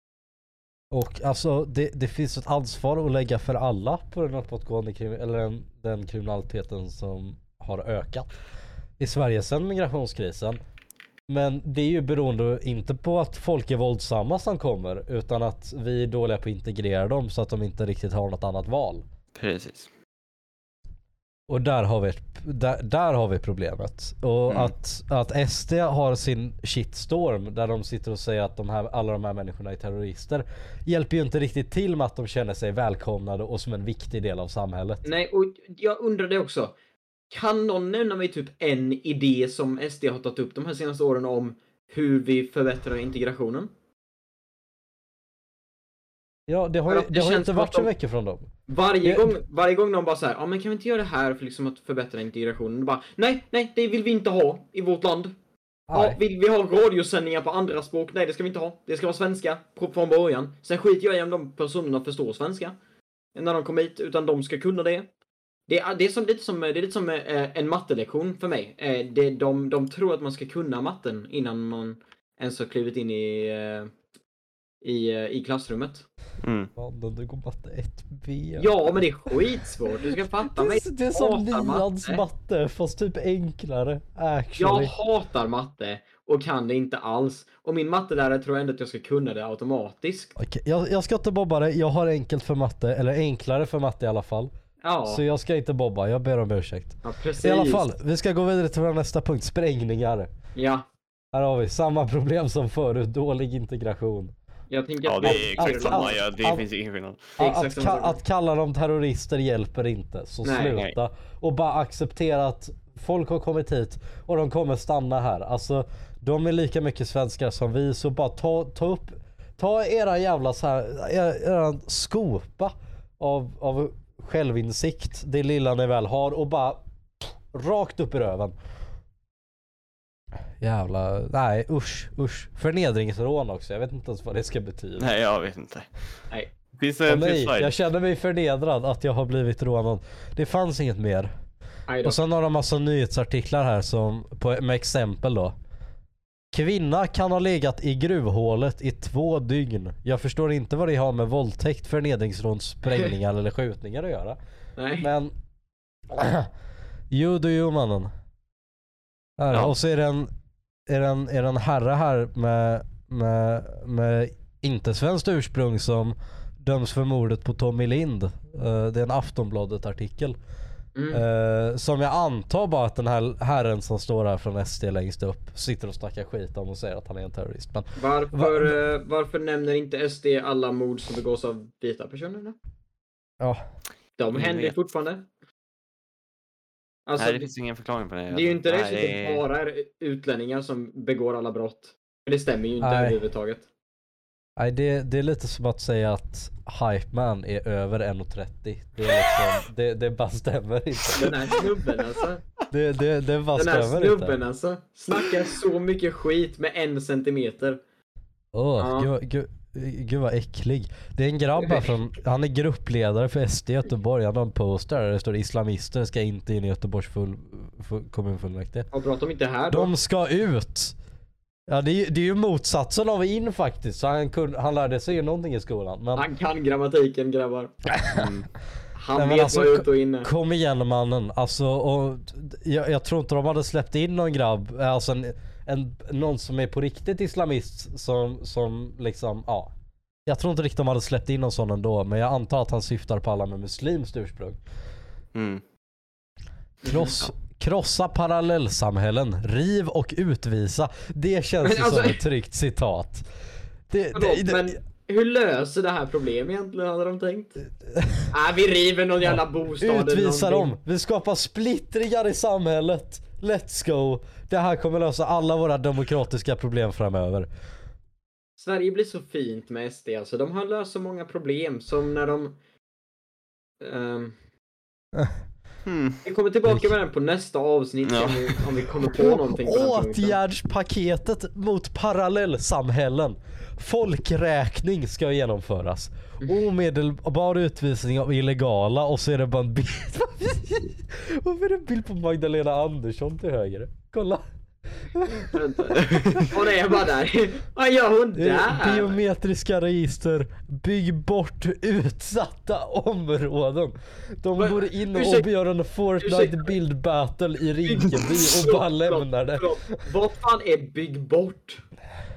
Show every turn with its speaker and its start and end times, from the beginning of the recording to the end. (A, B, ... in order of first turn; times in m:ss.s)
0:00.9-0:08.3 A
0:09.0-0:10.6 A
0:11.3-0:19.0 A
0:19.3-0:19.9 B
0:21.5-0:35.0 A
0:35.0-0:36.7 C
0:37.3-0:43.7 C
0:46.5-0:48.5 A
0:46.9-0:47.9 C
0:48.7-0:55.3 C
0:49.0-0:49.3 A
0:55.9-0:56.2 A
0:55.9-1:02.7 C
1:03.3-1:05.1 C
1:05.7-1:13.9 C
1:14.8-1:16.0 C
1:16.4-1:16.7 B
1:16.8-1:18.7 A
1:18.6-1:22.2 C
1:20.0-1:24.9 A
1:24.6-1:30.3 C
1:30.4-1:34.5 A
1:34.8-1:35.2 C
1:35.1-1:40.3 A
1:37.0-1:37.8 C
1:40.6-1:40.8 C
1:41.3-1:44.3 A
1:44.7-1:46.2 C
1:45.0-1:47.4 B
1:45.2-1:46.6 A
1:47.4-1:48.2 C
1:47.4-2:08.6 A
1:50.4-1:50.8 C
2:10.6-2:15.1 A
2:15.0-2:15.9 B
2:16.8-2:17.7 B
2:17.1-2:21.3 A
2:21.9-2:22.2 C
2:22.0-2:25.5 A
2:26.5-2:34.4 A
2:34.8-2:35.1 C
2:35.0-2:35.3 A
2:36.1-2:36.5 A
2:37.1-2:38.1 A
2:39.4-2:40.3 A
2:39.5-2:39.7 B
2:40.9-2:50.4 A
2:50.9-2:51.2 C
2:51.1-2:58.7 A
2:58.0-3:02.6 C
3:04.2-3:05.3 C
3:04.3-3:04.7 B
3:07.1-3:07.5 C
3:07.2-3:09.4 B
3:08.3-3:13.6 C
3:12.8-3:13.2 A
3:14.6-3:21.6 A
3:19.0-3:19.6 B
3:21.2-3:22.4 C
3:21.2-3:21.5 B
3:22.7-3:24.4 A
3:23.5-3:27.8 C
3:28.5-3:38.9 A
3:28.8-3:29.1 C
3:31.6-3:31.9 C
3:38.9-3:39.9 C
3:39.7-3:41.0 A
3:41.7-3:46.2 A
3:46.2-3:47.7 C
3:47.9-3:48.3 A
3:48.1-3:48.5 B
3:49.0-3:50.3 C
3:49.1-3:59.7 A
4:00.2-4:04.6 A
4:05.3-4:05.6 B
4:06.8-4:07.2 C
4:06.8-4:13.3 A
4:11.6-4:12.2 C
4:13.9-4:14.8 A
4:14.1-4:17.6 C
4:17.8-4:18.3 A
4:18.3-4:20.7 C
4:19.3-4:27.5 A
4:28.6-4:32.6 C
4:33.8-4:34.3 C
4:35.8-4:36.2 B
4:36.2-4:40.4 C
4:38.0-4:38.6 B
4:39.0-4:54.4 A
4:55.0-4:56.5 A
4:55.3-4:59.2 C
4:56.0-4:56.5 B
4:58.3-5:10.0 A
5:04.6-5:05.5 C
5:06.2-5:06.7 C
5:07.8-5:11.8 C